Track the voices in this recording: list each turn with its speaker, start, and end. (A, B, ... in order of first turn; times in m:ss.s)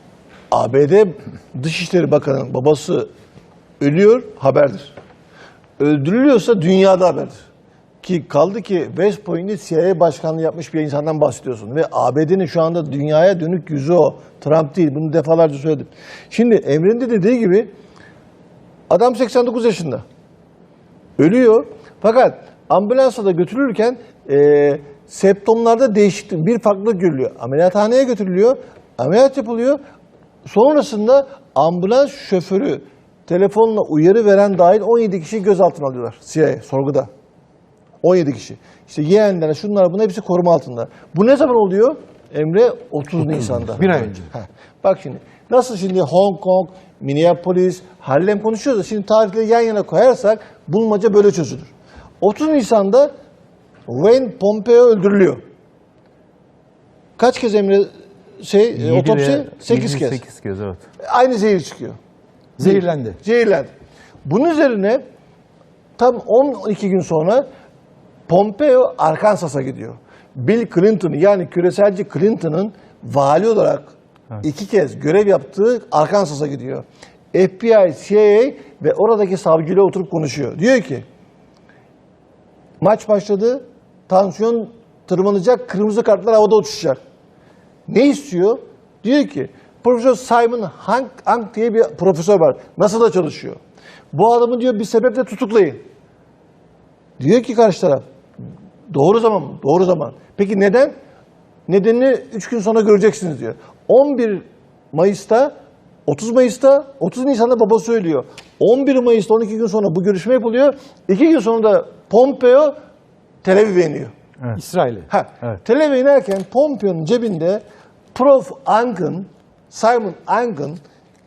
0:00.5-0:03.1 A
0:03.8-0:04.9 A
0:05.8-0:07.4 A
0:08.0-0:17.7 A
0:18.9-0:20.0 A
0:21.2-0:29.8 A
0:30.4-0:37.1 A
0:38.0-0:53.1 A
0:43.2-0:44.3 B
0:53.9-0:55.4 A
0:57.2-0:57.9 A
0:58.4-1:00.2 A
0:58.8-1:00.8 C
1:01.0-1:02.0 A
1:02.6-1:03.2 B
1:02.6-1:03.7 A
1:04.2-1:05.0 A
1:06.0-1:07.4 A
1:08.3-1:21.0 A
1:22.8-1:27.0 A
1:27.9-1:33.6 A
1:34.1-1:35.8 A
1:37.2-1:38.0 A
1:38.9-1:40.9 A
1:41.7-1:45.5 A
1:46.1-1:52.7 A
1:53.4-1:54.1 A
1:54.5-1:55.1 B
1:55.1-1:57.6 A
1:58.1-2:00.8 A